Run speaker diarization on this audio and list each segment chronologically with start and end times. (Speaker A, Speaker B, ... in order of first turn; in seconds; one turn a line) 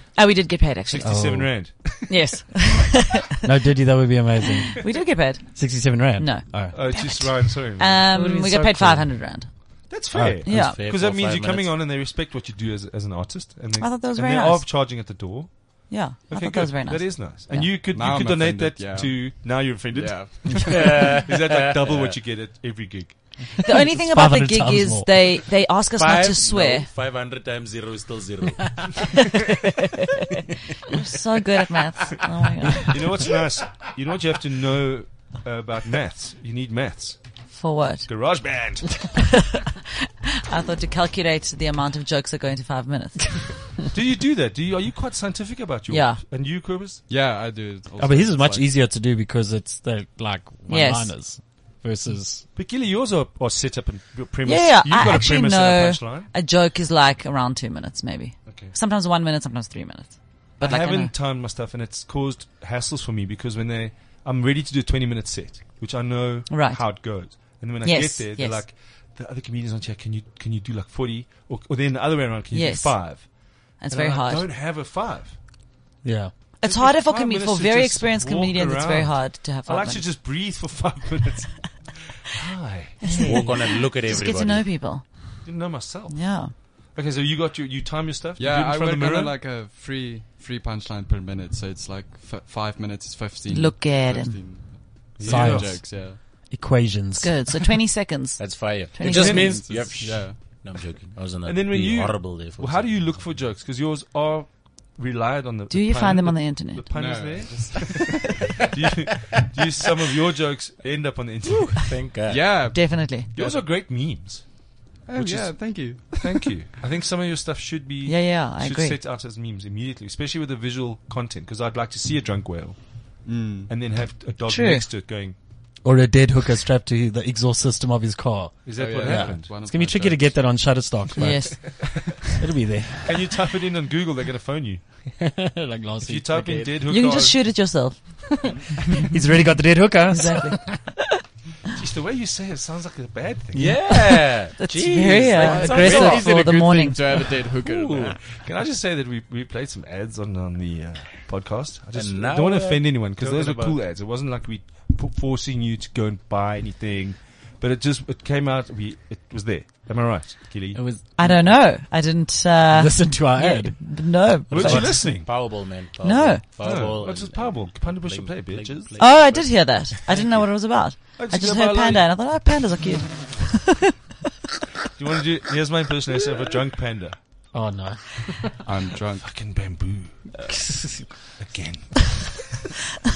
Speaker A: 0.1-1.4
Speaker B: 0.9-2.4
Speaker C: 1.0-1.5
Speaker A: 2.1-3.4
Speaker C: 3.4-6.9
Speaker A: 4.5-9.9
Speaker B: 6.7-8.1
Speaker C: 8.1-9.1
Speaker B: 9.9-23.4
Speaker C: 10.1-10.7
Speaker A: 10.4-10.8
Speaker D: 10.5-11.7
Speaker A: 13.8-14.7
Speaker A: 15.9-17.7
Speaker E: 17.9-21.2
Speaker D: 20.6-22.1
Speaker A: 23.6-26.9
Speaker C: 23.8-25.4
Speaker D: 25.9-29.1
Speaker A: 29.1-33.2
Speaker B: 32.9-37.2
Speaker A: 37.5-38.1
Speaker B: 38.1-39.2
Speaker A: 39.2-43.6
Speaker B: 43.9-47.0
Speaker A: 45.9-46.2
Speaker E: 47.1-48.8
Speaker C: 48.0-52.4
Speaker A: 50.7-51.1
Speaker B: 52.5-56.3
Speaker A: 54.4-61.1
Speaker B: 58.5-58.7
Speaker B: 60.6-75.4
Speaker A: 66.5-68.6
Speaker A: 72.5-73.0
Speaker A: 73.8-74.5
Speaker C: 76.0-76.3
Speaker A: 76.6-80.1
Speaker B: 76.6-83.1
Speaker A: 83.0-85.5
Speaker D: 83.1-84.7
Speaker B: 85.4-89.4
Speaker A: 86.1-86.5
Speaker E: 88.4-96.2
Speaker A: 93.5-94.4
Speaker B: 95.2-95.8
Speaker C: 95.2-97.8
Speaker A: 97.2-99.6
Speaker D: 98.4-103.2
Speaker B: 99.0-99.8
Speaker E: 99.1-100.4
Speaker B: 101.4-112.0
Speaker A: 105.7-106.9
Speaker E: 106.9-108.5
Speaker D: 111.8-112.7
Speaker E: 112.3-113.6
Speaker A: 112.7-113.3
Speaker B: 113.3-125.4
Speaker E: 115.1-116.5
Speaker A: 118.0-119.0
Speaker E: 123.2-123.7
Speaker A: 124.5-124.9
Speaker C: 125.8-133.2
Speaker B: 128.6-129.6
Speaker E: 128.7-130.5
Speaker A: 131.2-132.1
Speaker B: 131.5-132.2
Speaker B: 133.0-134.8
Speaker C: 135.2-136.7
Speaker B: 136.0-137.7
Speaker A: 136.9-138.8
Speaker C: 139.0-140.7
Speaker A: 140.1-141.2
Speaker B: 141.7-143.9
Speaker D: 143.5-146.2
Speaker A: 143.9-147.3
Speaker E: 145.4-148.2
Speaker B: 145.6-146.2
Speaker D: 147.7-148.1
Speaker B: 148.0-160.8
Speaker D: 151.9-153.8
Speaker C: 160.7-161.6
Speaker A: 161.2-165.4
Speaker C: 162.7-164.9
Speaker B: 164.5-165.3
Speaker D: 164.5-170.4
Speaker A: 166.0-166.4
Speaker B: 166.6-169.2
Speaker A: 169.0-173.9
Speaker B: 171.2-172.2
Speaker B: 174.9-177.2
Speaker C: 177.5-178.6
Speaker E: 178.6-179.3
Speaker B: 179.2-180.3
Speaker C: 180.4-181.3
Speaker B: 181.4-182.3